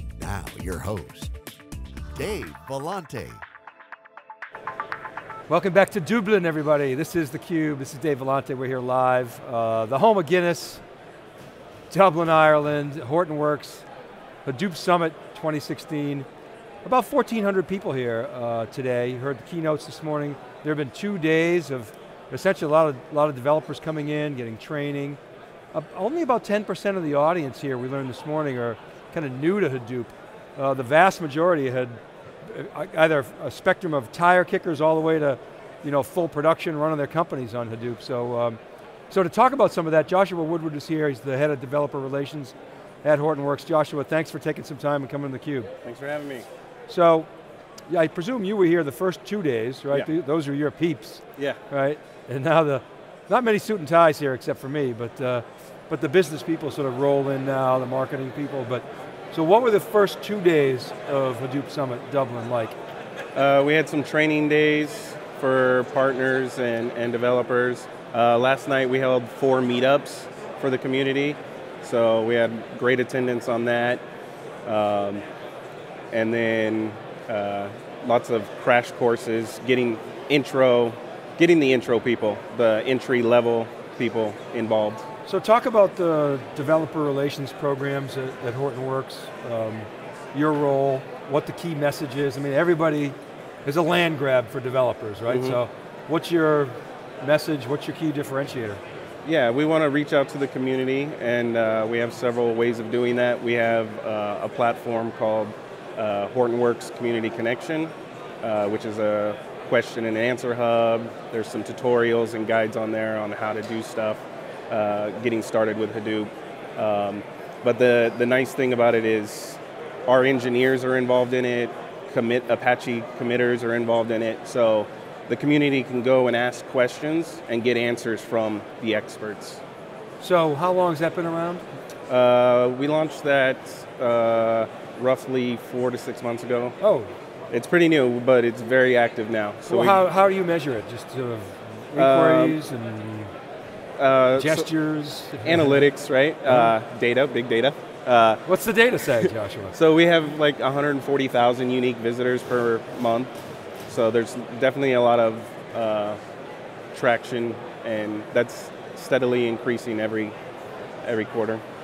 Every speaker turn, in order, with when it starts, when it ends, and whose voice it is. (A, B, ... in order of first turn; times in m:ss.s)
0:00.2-0:01.3 A
0:02.1-0:03.4 A
0:05.5-0:10.8 B
0:11.9-0:13.9 B
0:14.4-0:16.3 B
0:16.8-0:25.2 B
0:25.7-0:38.6 B
0:39.1-0:45.7 B
0:45.8-0:46.4 C
0:46.9-0:47.3 B
0:47.9-1:02.8 B
1:03.3-1:14.0 C
1:14.6-1:15.2 C
1:16.1-1:25.0 C
1:25.2-1:38.8 B
1:35.3-1:35.6 C
1:39.2-2:09.6 C
2:10.2-2:11.6 B
2:12.1-2:16.8 C
2:16.8-2:17.1 B
2:17.5-2:20.0 C
2:19.7-2:23.3 B
2:22.0-2:22.6 C
2:24.0-2:24.7 C
2:24.3-2:25.8 B
2:25.4-2:28.4 C
2:26.5-2:26.7 B
2:28.4-2:29.7 B
2:29.7-2:33.3 C
2:33.9-2:36.2 C
2:36.9-2:40.3 C
2:41.0-2:41.6 C